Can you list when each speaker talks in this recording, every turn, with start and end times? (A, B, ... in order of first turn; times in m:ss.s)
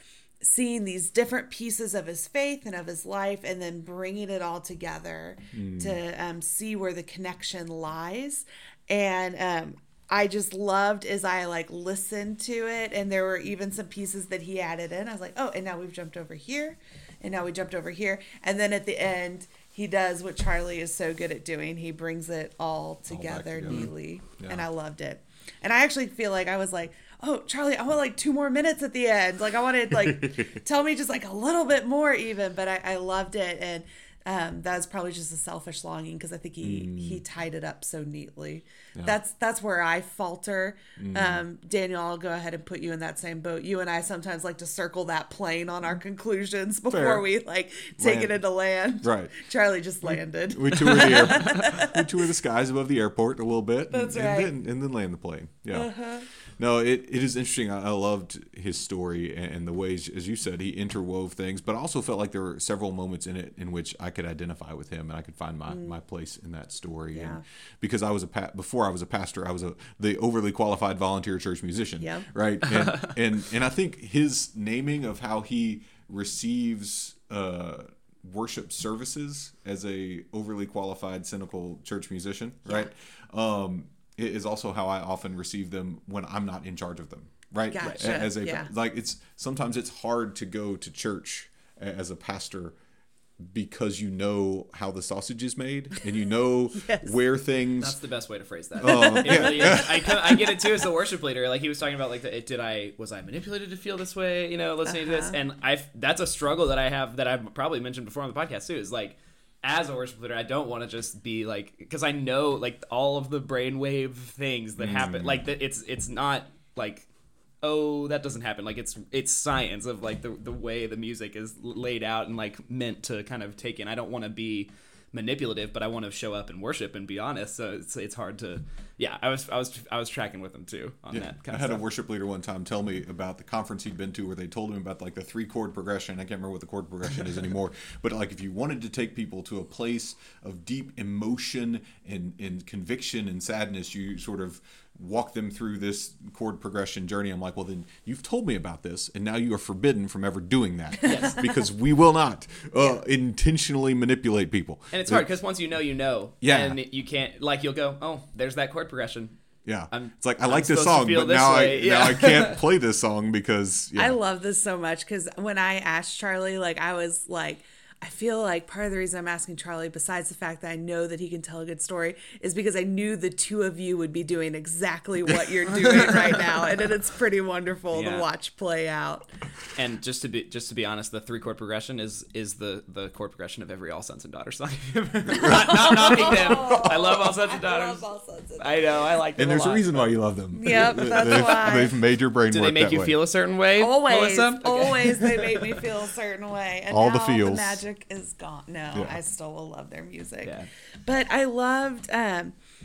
0:00.4-0:52.1 A
0:05.5-0:06.0 B
0:23.1-0:24.7 B
0:30.0-0:30.5 B
0:36.6-0:37.2 B
0:41.0-0:41.4 B
0:46.9-0:47.3 B
0:48.0-0:48.4 B
0:49.0-0:49.4 B
0:50.0-0:55.9 B
0:53.9-0:54.5 A
0:55.7-0:56.3 A
0:56.6-1:32.8 B
1:07.1-1:07.4 A
1:12.0-1:12.3 A
1:12.7-1:13.2 C
1:27.7-1:28.7 A
1:27.8-1:28.2 C
1:33.4-1:38.0 B
1:36.8-1:37.1 A
1:37.8-1:57.1 C
1:38.8-1:40.5 B
1:38.8-1:40.6 A
1:44.9-1:45.4 A
1:54.8-1:55.5 B
1:57.6-2:11.8 C
2:11.1-2:35.3 B
2:31.0-2:31.6 C
2:34.9-2:39.4 C
2:36.4-2:36.8 B
2:39.7-2:44.2 B
2:39.9-2:42.6 C
2:44.0-2:59.4 A
2:55.9-2:56.3 C
2:57.9-2:58.3 C
2:59.7-3:08.0 C
3:05.3-3:08.9 A
3:05.4-3:07.0 B
3:08.6-3:10.1 C
3:09.4-3:13.3 B
3:10.5-3:12.0 A
3:10.7-3:11.8 C
3:12.5-3:15.9 C
3:13.7-3:22.6 A
3:16.9-3:17.8 B
3:18.9-3:19.2 B
3:20.4-3:20.7 C